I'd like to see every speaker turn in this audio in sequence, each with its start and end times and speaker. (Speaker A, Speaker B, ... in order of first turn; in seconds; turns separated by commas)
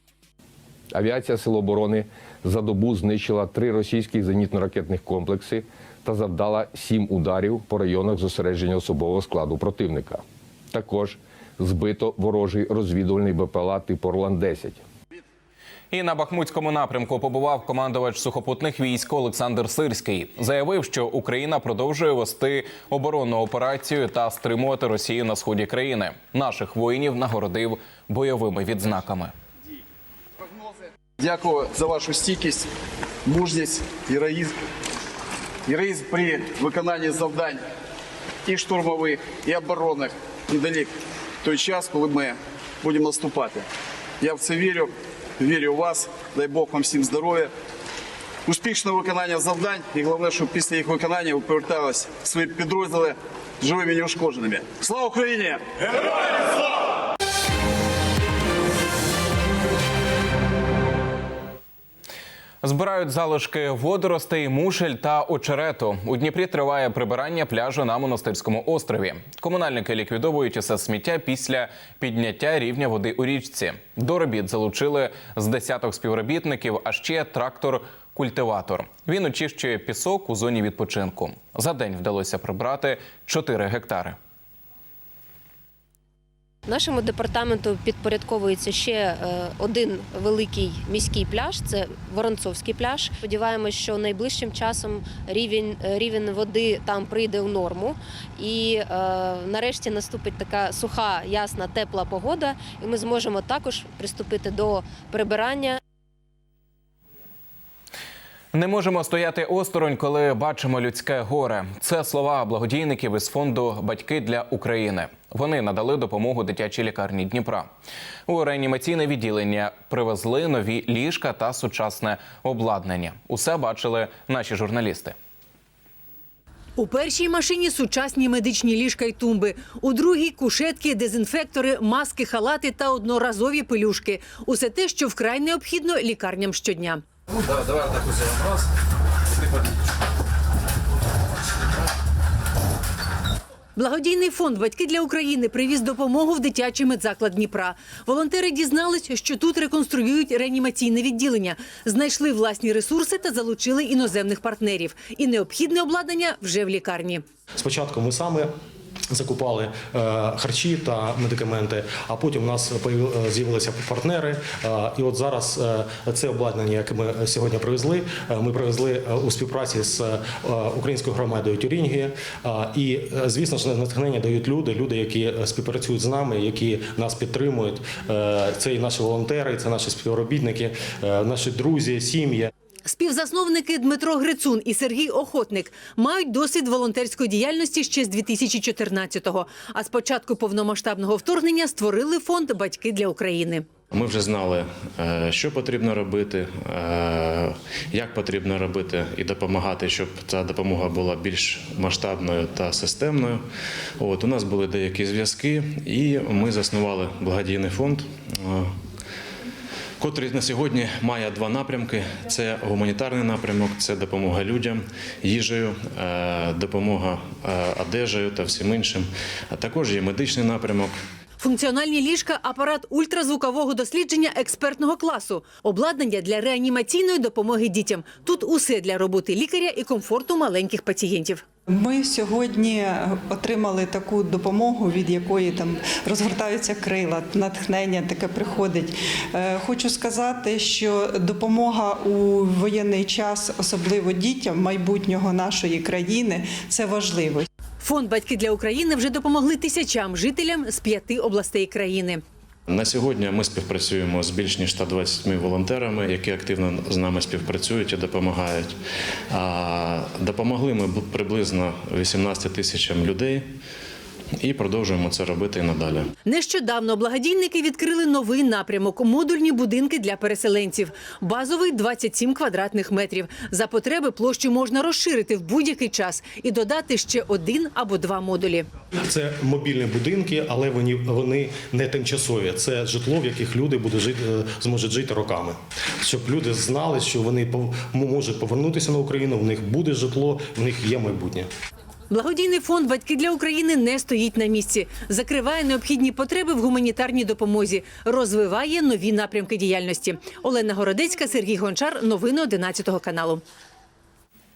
Speaker A: 0.9-14.8, Speaker B: 15.9-29.3, Speaker C: 31.2-32.7, Speaker C: 33.2-34.5, Speaker C: 35.7-37.6, Speaker C: 38.4-43.6, Speaker C: 44.2-47.5, Speaker C: 48.4-56.4, Speaker B: 62.6-84.2, Speaker D: 86.7-105.8, Speaker B: 108.5-117.7, Speaker B: 118.3-125.1, Speaker E: 126.8-137.0, Speaker E: 143.8-157.2, Speaker F: 157.5-158.5, Speaker F: 159.1-182.5, Speaker E: 182.8-193.7, Speaker G: 193.9-203.4, Speaker G: 204.0-208.7, Speaker G: 210.0-220.9, Speaker E: 221.4-231.4, Speaker H: 231.7-247.4, Speaker E: 247.8-252.2, Speaker G: 252.7-258.7, Speaker G: 259.3-263.4, Speaker G: 264.4-266.1, Speaker E: 266.2-278.7, Speaker F: 279.1-291.5, Speaker E: 292.1-303.4